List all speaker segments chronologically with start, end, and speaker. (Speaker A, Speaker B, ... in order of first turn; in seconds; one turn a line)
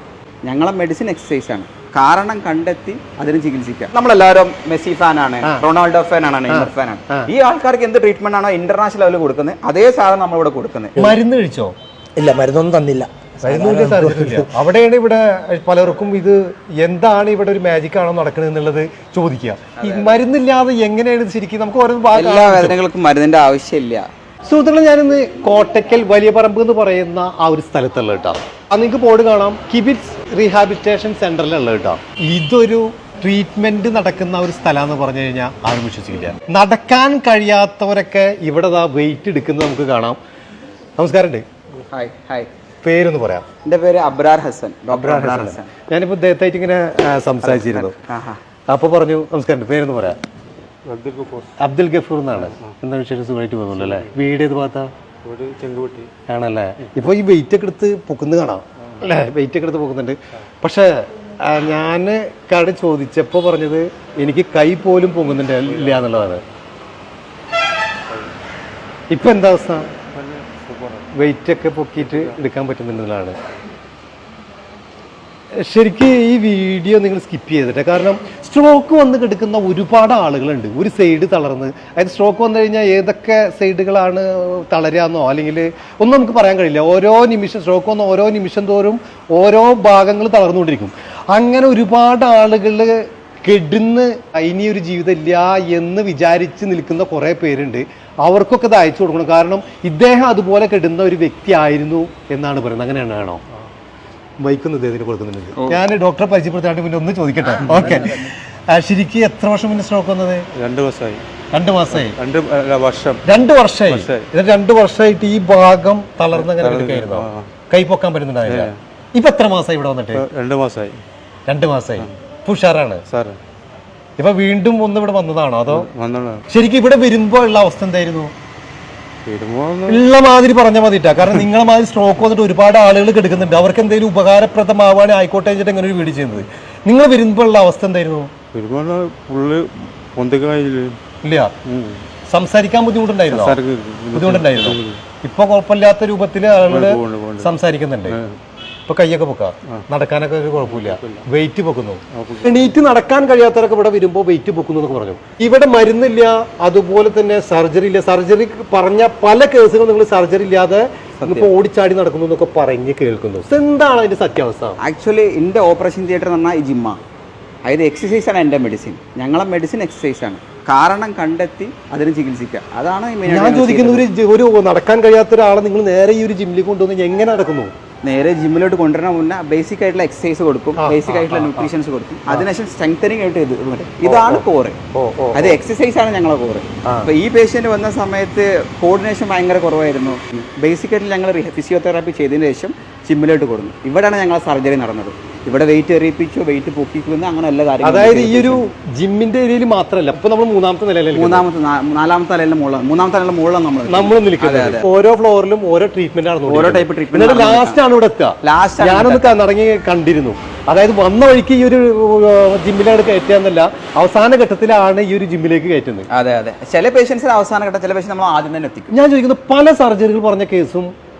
Speaker A: 0.4-10.9
Speaker B: 6.5-7.3
Speaker B: 10.9-11.7
Speaker C: 12.2-14.5
Speaker B: 13.4-22.8
Speaker A: 19.8-20.2
Speaker A: 22.1-24.1
Speaker B: 24.4-40.2
Speaker B: 41.0-41.4
Speaker A: 41.9-42.5
Speaker B: 42.8-43.5
Speaker A: 43.6-45.7
Speaker B: 44.9-47.9
Speaker A: 47.4-48.4
Speaker B: 48.7-50.2
Speaker D: 50.8-51.5
Speaker B: 51.6-54.9
Speaker D: 52.4-52.7
Speaker D: 53.7-54.1
Speaker D: 55.2-56.1
Speaker B: 56.3-66.4
Speaker D: 65.7-66.0
Speaker B: 69.1-69.9
Speaker D: 70.1-71.2
Speaker B: 71.1-73.4
Speaker D: 72.0-72.4
Speaker B: 75.6-103.4
Speaker B: 104.4-110.4
Speaker D: 110.5-111.2
Speaker B: 111.5-112.2
Speaker D: 111.9-113.2
Speaker B: 113.2-120.2
Speaker D: 113.8-114.3
Speaker D: 116.3-117.5
Speaker D: 118.4-118.8
Speaker D: 120.1-121.0
Speaker B: 121.5-123.0
Speaker D: 123.1-123.4
Speaker B: 124.2-125.9
Speaker D: 125.7-126.4
Speaker B: 126.5-128.3
Speaker D: 129.2-130.0
Speaker B: 129.9-138.3
Speaker D: 138.5-141.0
Speaker B: 141.2-141.5
Speaker D: 141.7-142.0
Speaker B: 142.3-143.6
Speaker D: 143.3-145.0
Speaker B: 144.1-148.2
Speaker D: 146.7-148.4
Speaker B: 148.9-164.8
Speaker D: 150.7-151.2
Speaker D: 152.1-152.7
Speaker D: 161.2-161.5
Speaker A: 164.8-167.0
Speaker A: 167.6-174.0
Speaker B: 173.2-177.7
Speaker A: 178.0-184.8
Speaker B: 180.8-181.7
Speaker B: 184.0-185.6
Speaker A: 185.3-198.6
Speaker B: 186.8-187.1
Speaker B: 197.8-201.4
Speaker A: 201.1-204.9
Speaker B: 203.9-216.1
Speaker A: 206.4-207.8
Speaker A: 208.4-209.4
Speaker A: 216.1-218.9
Speaker B: 218.9-220.9